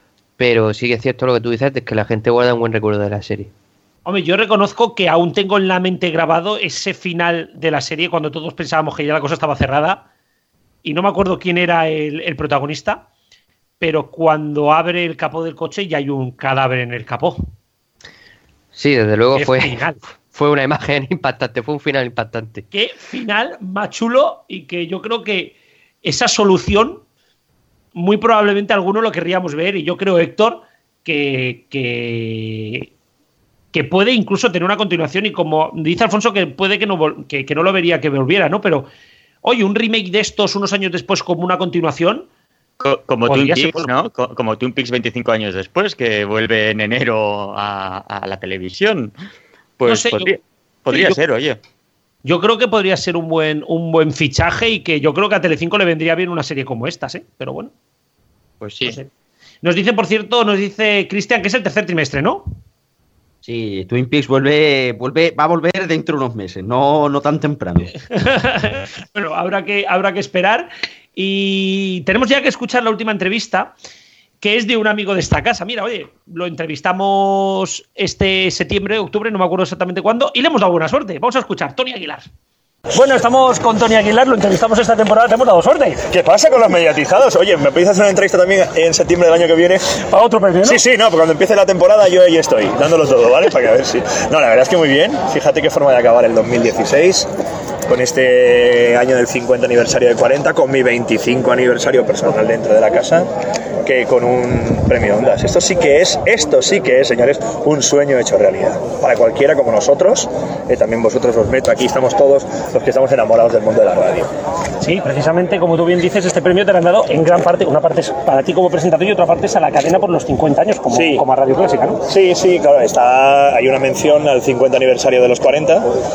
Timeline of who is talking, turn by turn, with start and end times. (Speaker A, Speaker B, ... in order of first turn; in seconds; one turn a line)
Speaker A: 0.4-3.5
Speaker B: 4.0-10.1
Speaker B: 10.8-13.1
Speaker B: 13.8-17.4
Speaker A: 18.7-22.6
Speaker B: 19.3-20.0
Speaker B: 22.7-27.0
Speaker B: 27.9-32.9
Speaker B: 33.7-38.9
Speaker B: 39.4-42.3
Speaker C: 42.8-49.1
Speaker B: 43.3-43.9
Speaker C: 49.8-51.6
Speaker B: 49.9-50.4
Speaker B: 50.9-51.2
Speaker B: 52.2-57.7
Speaker C: 58.6-59.0
Speaker B: 58.8-59.1
Speaker B: 59.6-62.5
Speaker D: 63.4-67.9
Speaker B: 68.1-73.7
Speaker B: 74.4-82.3
Speaker E: 82.9-86.0
Speaker F: 86.1-90.0
Speaker E: 90.0-90.8
Speaker F: 90.6-97.3
Speaker F: 97.9-103.3
Speaker F: 103.8-114.3
Speaker E: 114.8-122.0
Speaker F: 120.9-121.2
Speaker F: 122.1-125.9